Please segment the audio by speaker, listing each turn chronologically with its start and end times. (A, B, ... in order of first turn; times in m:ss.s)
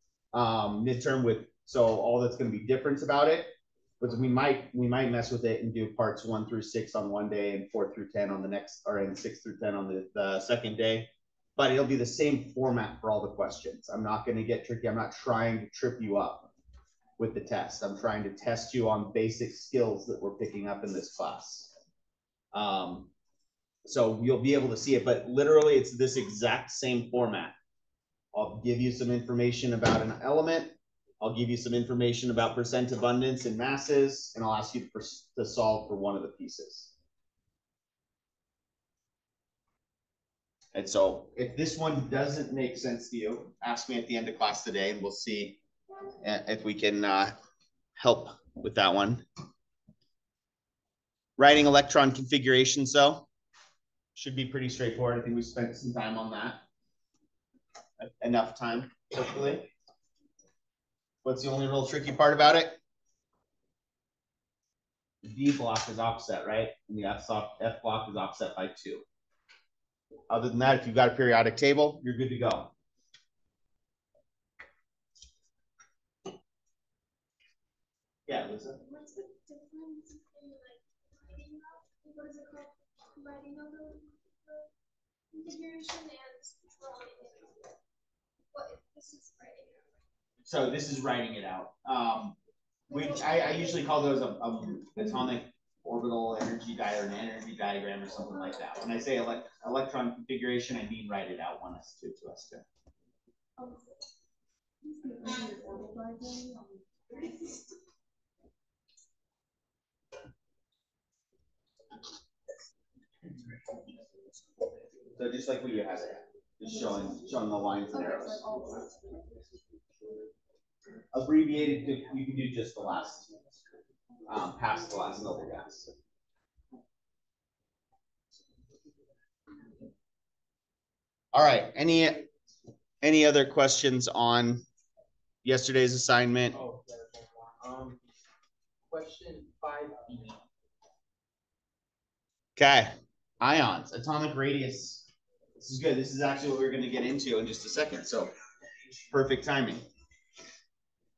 0:00.3-0:16.5 A
0:17.2-0:21.7 A
0:22.5-0:23.1 A
0:23.8-0:27.5 A
0:28.3-0:36.9 A
0:40.7-0:45.6 A
0:46.2-0:47.4 A
0:48.0-0:49.2 A
0:51.4-0:53.3 A
0:54.2-0:56.6 A
0:58.0-0:59.7 A
1:01.2-1:02.8 A
1:05.2-1:09.0 A
1:10.3-1:12.7 A
1:18.3-1:18.8 A
1:18.8-1:24.7 B
1:25.3-1:27.7 B
1:28.5-1:29.8 B
1:30.4-1:32.4 A
1:32.9-1:33.4 B
1:32.9-1:42.6 A
1:43.6-1:43.9 B
1:44.8-1:47.6 B
1:55.2-1:58.4 A
1:58.2-1:59.4 B
2:01.1-2:03.3 A
2:04.3-2:05.9 A
2:11.3-2:12.3 A
2:13.0-2:14.6 A
2:15.4-2:16.6 A
2:16.5-2:18.0 C
2:18.9-2:20.4 C
2:22.6-2:25.1 A
2:25.6-2:28.3 A
2:29.1-2:29.8 A